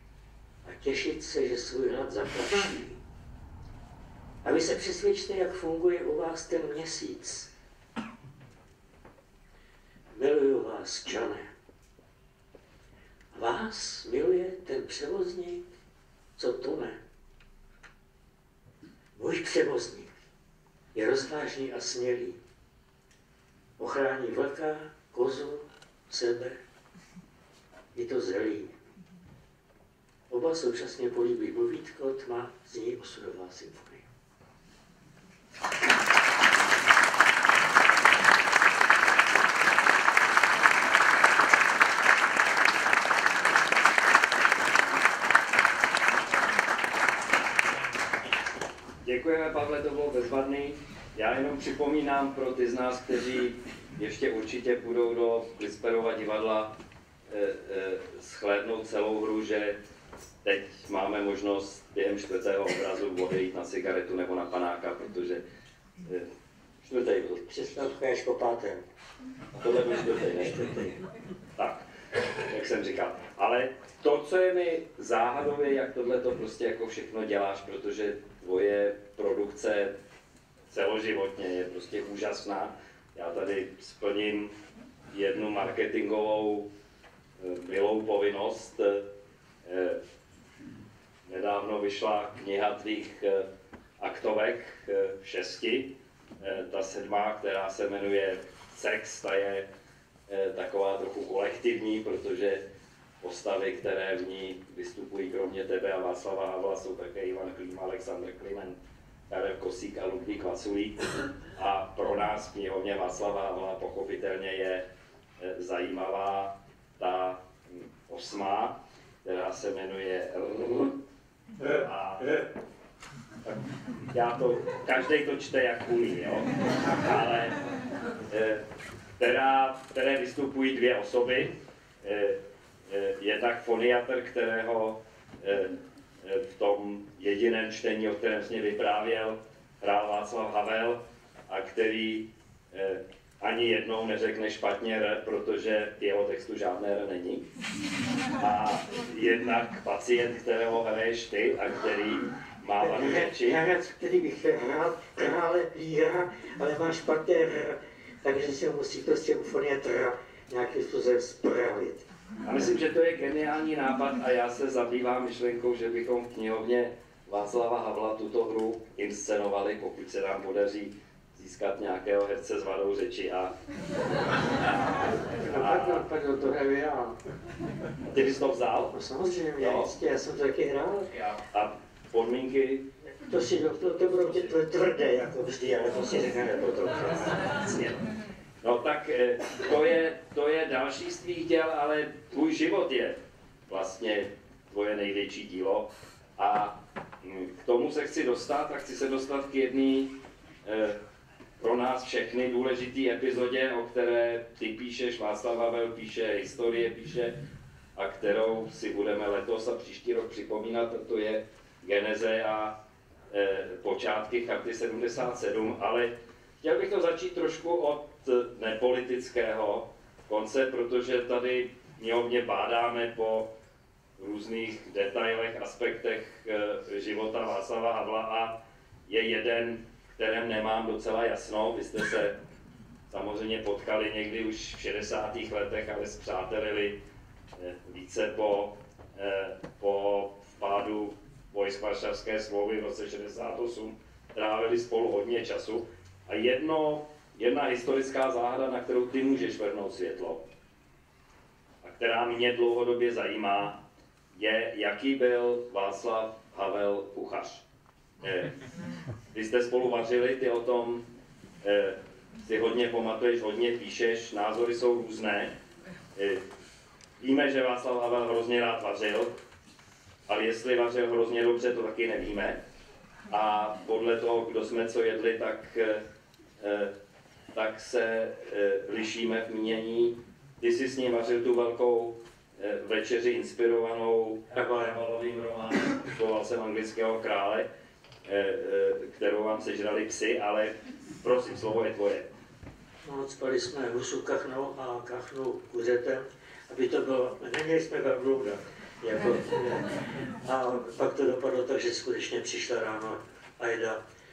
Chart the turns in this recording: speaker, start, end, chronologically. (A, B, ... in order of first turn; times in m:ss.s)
0:00.6-0:03.0 A
0:04.4-0:07.5 A
0:10.1-0:11.5 A
0:13.3-0:15.6 A
0:16.4-0:17.0 A
0:19.2-0:20.1 A
0:20.9-0:22.4 A
0:23.8-0:26.6 A
0:28.0-0:28.7 A
0:30.3-0:34.1 A
0:49.0-0:56.8 B
0:57.3-0:59.8 B
1:00.4-1:05.4 B
1:06.8-1:07.9 B
1:07.5-1:08.8 A
1:09.5-1:10.7 B
1:10.4-1:11.0 A
1:11.6-1:11.9 B
1:12.4-1:20.0 B
1:20.7-1:24.6 B
1:25.1-1:26.7 B
1:27.4-1:29.1 B
1:29.6-1:30.0 B
1:31.3-1:33.5 B
1:34.0-1:39.7 B
1:40.3-1:42.6 B
1:43.2-1:54.9 B
1:55.4-2:01.0 B
2:01.6-2:02.4 B
2:03.4-2:07.6 B
2:08.3-2:08.6 B
2:09.2-2:27.5 B
2:28.4-2:33.6 B
2:32.8-2:42.1 A
2:42.4-2:53.6 B
2:54.5-2:56.0 B
2:55.4-2:57.2 A
2:58.1-2:59.0 B
2:58.9-3:01.1 A
2:59.6-2:59.9 B
3:01.2-3:02.9 B
3:03.1-3:08.0 A
3:08.6-3:21.0 B
3:21.6-3:27.4 B
3:28.0-3:32.8 B
3:33.3-3:43.5 B
3:44.2-3:52.4 B
3:53.1-3:57.0 B
3:57.6-4:10.4 B
4:11.8-4:17.6 B
4:18.2-4:18.6 B
4:19.3-4:21.1 B
4:21.6-4:25.6 B
4:26.2-4:26.4 B
4:27.2-4:29.4 B
4:30.3-4:32.6 B
4:33.3-4:36.0 B
4:36.6-4:36.9 B
4:37.5-4:47.7 B
4:44.6-4:45.0 A
4:48.2-4:52.3 B
4:53.0-5:04.0 A